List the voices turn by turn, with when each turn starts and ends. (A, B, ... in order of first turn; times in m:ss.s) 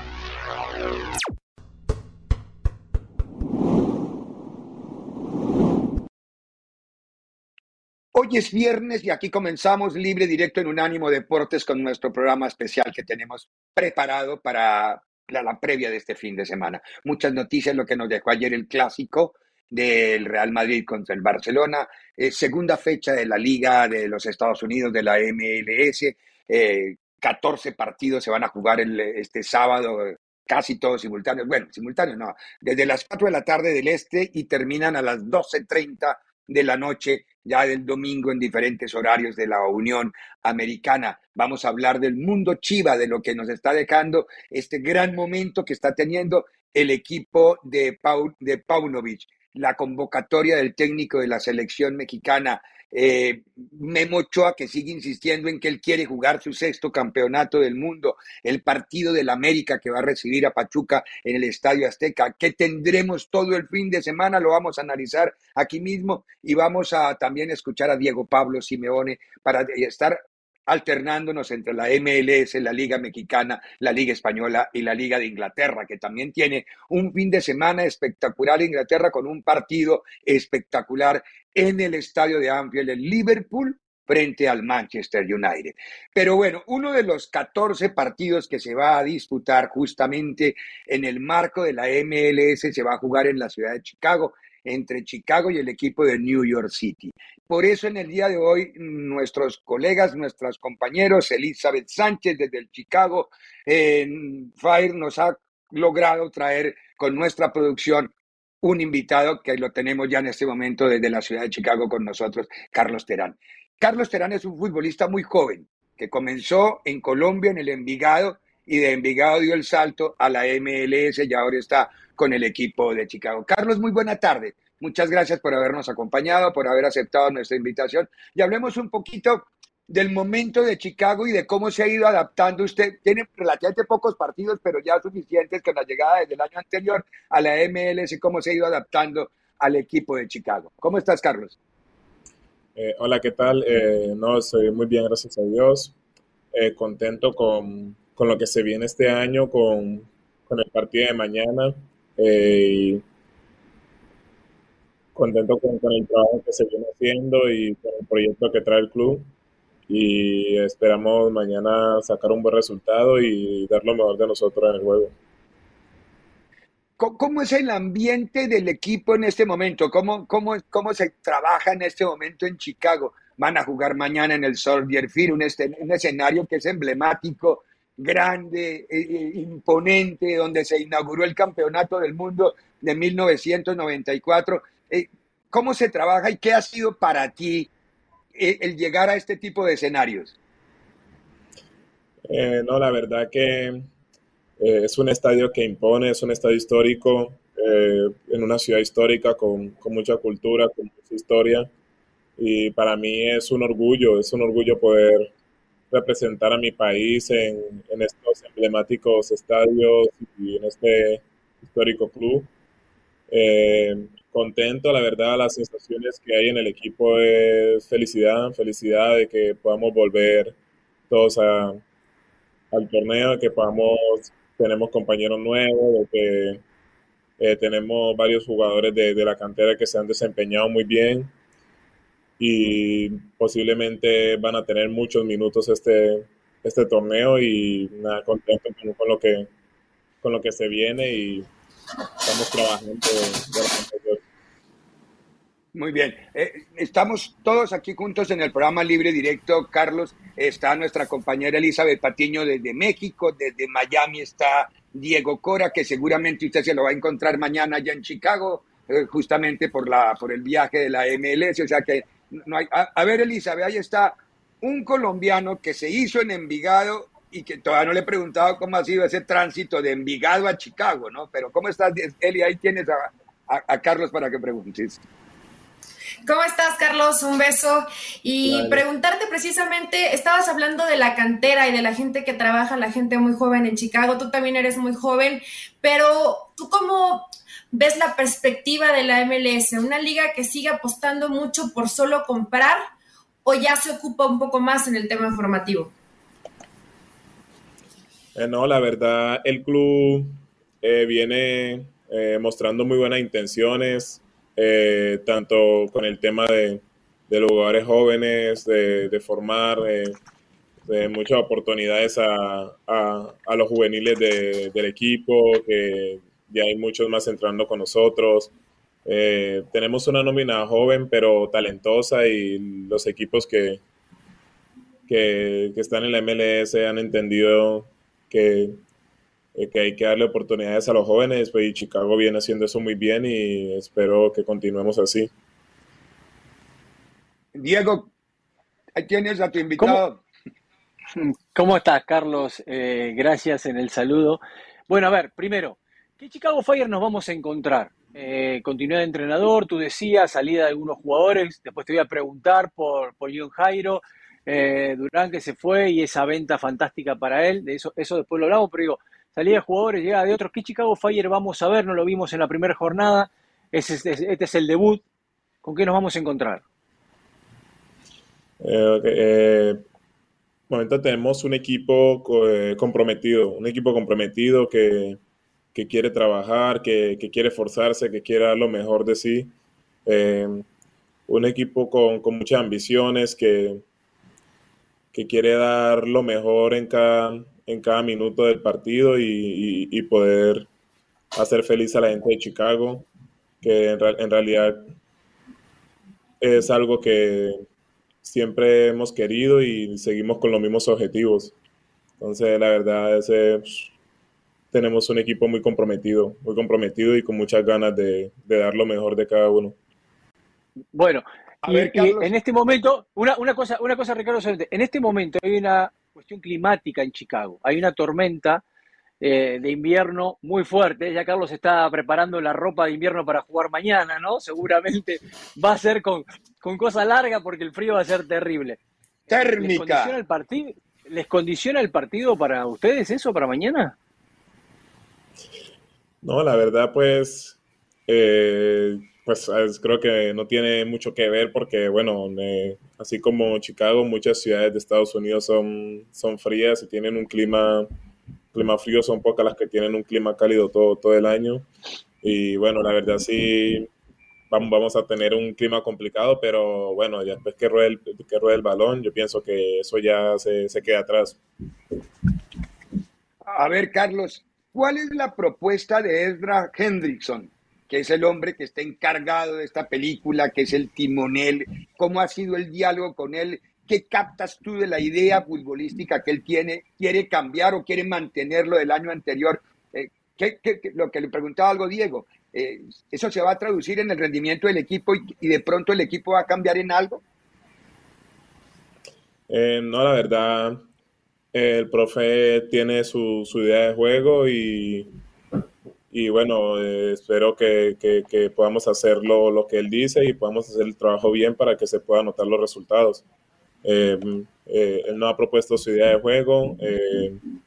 0:08.1-2:21.5 A
2:22.8-2:25.9 B
2:26.5-2:31.1 B
2:32.2-2:32.4 B
2:35.1-2:39.2 B
2:39.9-2:45.1 B
2:47.0-3:07.7 A
3:08.3-3:10.3 A
3:12.3-3:13.7 B
3:14.6-3:21.6 B
3:22.4-3:25.1 B
3:25.9-3:32.5 B
3:33.3-3:40.5 B
3:41.1-3:41.7 B
3:42.7-3:46.6 B
3:47.4-3:51.3 B
3:52.4-3:59.5 B
4:00.2-4:01.5 B
4:02.2-4:04.1 B
4:05.7-4:35.0 A
4:36.2-4:52.8 C
4:38.4-4:38.8 B
4:53.4-4:55.9 C
4:58.4-5:00.3 B
5:00.8-5:10.2 B
5:10.9-5:18.5 B
5:19.0-5:23.8 B
5:25.1-5:28.7 B
5:29.5-5:35.3 B
5:37.5-5:38.1 A
5:39.0-5:40.2 A
5:39.8-5:40.0 D
5:41.2-6:05.0 D
6:05.6-6:06.6 D
6:08.6-6:09.8 B
6:10.7-6:15.2 B
6:15.7-6:19.5 B
6:20.0-6:20.6 B
6:21.3-6:23.8 B
6:25.1-6:30.7 B
6:31.4-6:33.0 B
6:33.6-6:34.7 B
6:36.4-6:37.5 B
6:38.2-6:41.5 B
6:42.2-6:43.9 B
6:44.7-6:49.7 B
6:50.9-6:58.6 D
6:51.6-6:52.3 A
6:59.2-7:13.9 D
7:09.3-7:10.2 A
7:16.2-7:27.8 B
7:28.5-7:31.6 B
7:32.2-7:33.7 B
7:34.5-7:41.4 B
7:43.5-8:07.2 A
8:09.5-8:10.8 B
8:11.5-8:15.1 B
8:16.1-8:23.2 B
8:23.8-8:27.3 B